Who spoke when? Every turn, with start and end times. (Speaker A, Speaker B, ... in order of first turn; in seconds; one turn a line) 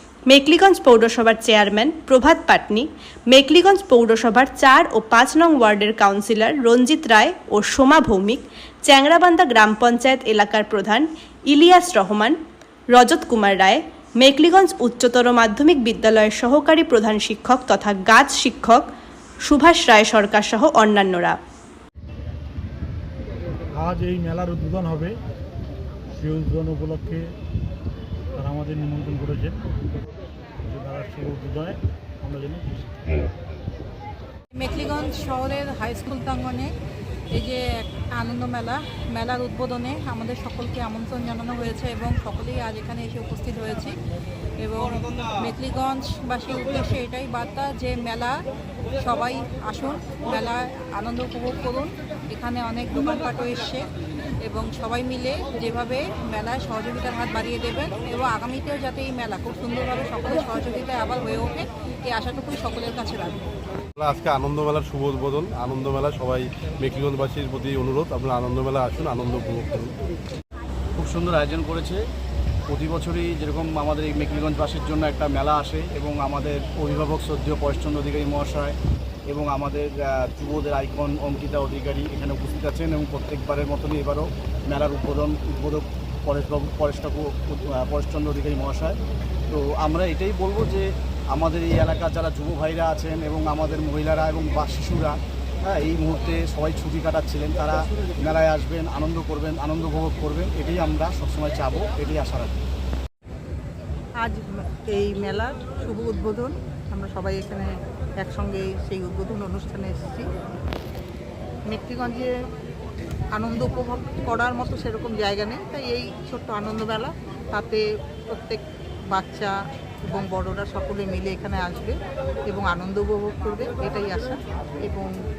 Speaker A: 0.3-12.4
Speaker A: 12.9-18.9
Speaker A: 19.4-21.4
Speaker B: 23.7-25.2
Speaker B: 26.1-27.3
Speaker B: 28.3-29.7
Speaker B: 30.6-33.3
Speaker C: 34.5-36.7
Speaker C: 37.3-44.0
Speaker C: 44.6-48.3
Speaker C: 49.0-53.8
Speaker C: 54.4-63.4
Speaker D: 64.0-69.9
Speaker E: 71.0-72.0
Speaker E: 72.7-78.8
Speaker E: 79.3-89.0
Speaker E: 89.5-102.6
Speaker F: 104.2-107.7
Speaker F: 108.2-110.3
Speaker F: 111.7-112.3
Speaker F: 113.3-118.6
Speaker F: 119.1-119.5
Speaker F: 120.0-121.9
Speaker F: 122.5-125.1